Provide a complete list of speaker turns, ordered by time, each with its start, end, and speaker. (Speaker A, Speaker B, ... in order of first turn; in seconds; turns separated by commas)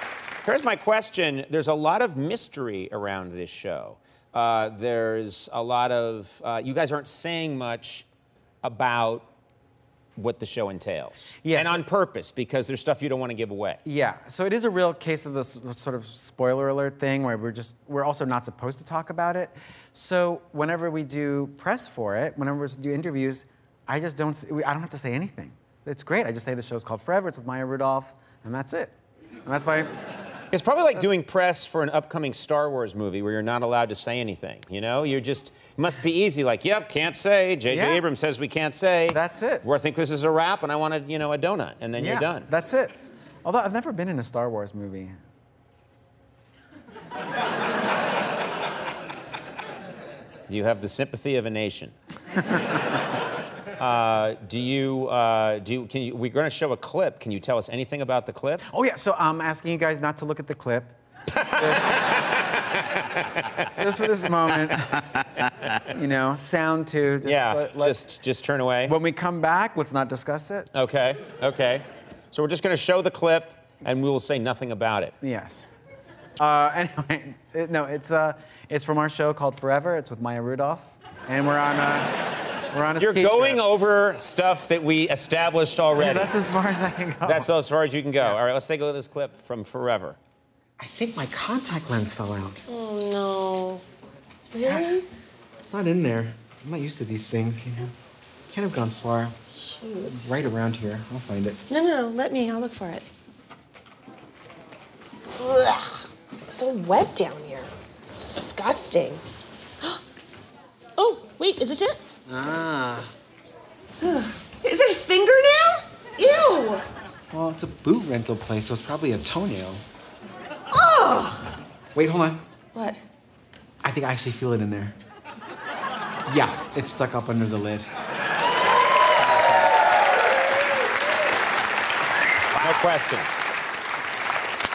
Speaker A: 0.4-8.1, Speaker A: 8.6-9.3, Speaker A: 10.2-13.8, Speaker B: 11.4-11.8, Speaker B: 13.8-29.9, Speaker A: 30.5-42.5, Speaker B: 37.7-38.0, Speaker B: 39.1-39.7, Speaker B: 42.0-45.2, Speaker A: 50.5-51.9, Speaker B: 52.3-53.0, Speaker A: 53.8-58.7, Speaker B: 58.7-61.0, Speaker A: 61.3-62.0, Speaker B: 61.5-62.0, Speaker A: 63.3-63.7, Speaker B: 63.7-68.1, Speaker A: 65.4-65.7, Speaker A: 67.2-69.0, Speaker B: 68.8-70.7, Speaker A: 70.7-75.2, Speaker B: 75.2-75.7, Speaker B: 76.4-82.2, Speaker B: 82.7-83.6, Speaker A: 83.0-86.3, Speaker B: 86.0-87.5, Speaker A: 87.2-90.2, Speaker B: 90.8-92.6, Speaker C: 92.7-93.8, Speaker C: 94.5-95.1, Speaker B: 94.6-95.0, Speaker B: 95.6-97.9, Speaker B: 98.5-99.3, Speaker C: 99.6-100.3, Speaker B: 100.1-101.6, Speaker C: 101.7-103.0, Speaker C: 105.4-109.2, Speaker C: 111.0-112.0, Speaker B: 112.3-113.1, Speaker C: 114.0-116.9, Speaker B: 117.3-119.8, Speaker C: 120.7-121.6, Speaker B: 121.9-122.4, Speaker C: 122.7-123.0, Speaker B: 123.8-125.0, Speaker B: 126.3-127.9, Speaker A: 132.5-133.4